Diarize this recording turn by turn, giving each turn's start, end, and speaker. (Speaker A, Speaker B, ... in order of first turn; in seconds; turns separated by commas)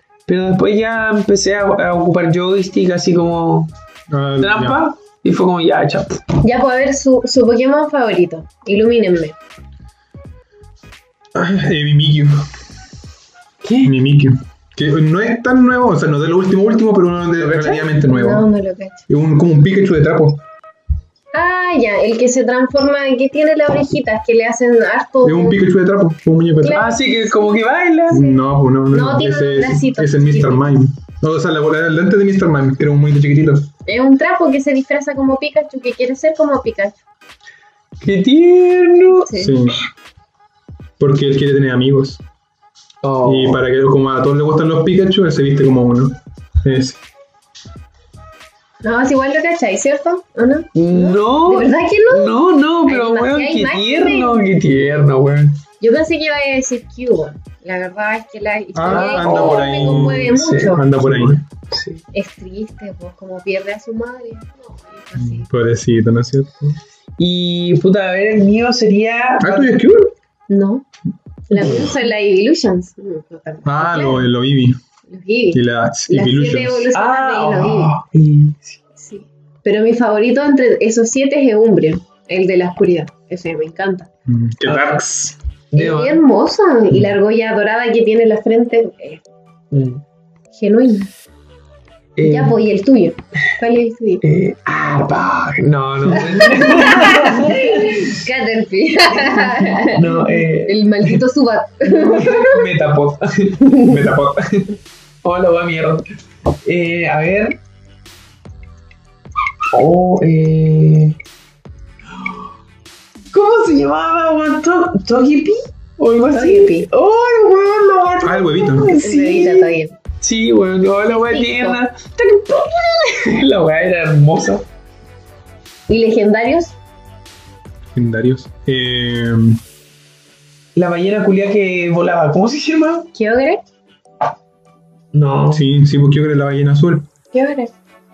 Speaker A: 0.3-3.7, Speaker B: 4.1-4.8, Speaker A: 4.4-6.2, Speaker C: 6.4-9.3, Speaker B: 11.3-12.5, Speaker A: 13.6-13.9, Speaker B: 13.8-18.5, Speaker A: 17.4-17.9, Speaker C: 18.1-19.0, Speaker B: 19.1-20.4, Speaker C: 21.3-25.6, Speaker B: 25.2-26.8, Speaker C: 26.6-30.6, Speaker A: 26.7-28.2, Speaker B: 28.1-33.7, Speaker C: 33.9-37.0, Speaker A: 38.0-39.3, Speaker C: 39.2-39.6, Speaker B: 39.3-39.8, Speaker B: 41.0-42.2, Speaker A: 43.0-43.6, Speaker B: 43.2-47.0, Speaker C: 48.8-54.5, Speaker A: 50.7-55.6, Speaker C: 55.8-60.8, Speaker B: 58.7-61.4, Speaker A: 58.9-62.0, Speaker C: 62.1-65.5, Speaker B: 65.2-66.8, Speaker A: 67.2-69.7, Speaker B: 69.4-70.1, Speaker C: 70.5-70.8, Speaker C: 71.5-74.2, Speaker B: 73.6-74.8, Speaker C: 75.1-77.9, Speaker B: 75.5-76.9, Speaker A: 76.9-78.8, Speaker C: 79.0-84.1, Speaker B: 84.3-85.3, Speaker A: 84.7-85.0, Speaker A: 85.7-86.2, Speaker C: 85.7-89.2, Speaker A: 89.7-90.0, Speaker C: 90.5-91.1, Speaker A: 92.2-92.6, Speaker C: 92.2-94.2, Speaker A: 94.2-98.2, Speaker C: 96.2-102.6, Speaker A: 99.1-101.2, Speaker A: 101.8-104.7, Speaker B: 103.8-104.5, Speaker A: 105.2-106.0, Speaker A: 106.6-107.6, Speaker A: 109.7-111.2, Speaker A: 113.3-124.6, Speaker C: 116.3-116.9, Speaker B: 118.2-119.0, Speaker C: 119.0-119.9, Speaker C: 121.2-121.8, Speaker C: 125.9-126.7, Speaker B: 127.9-129.6, Speaker A: 130.7-133.1, Speaker C: 133.1-133.6, Speaker A: 135.1-135.6, Speaker B: 135.5-137.1, Speaker C: 137.3-137.7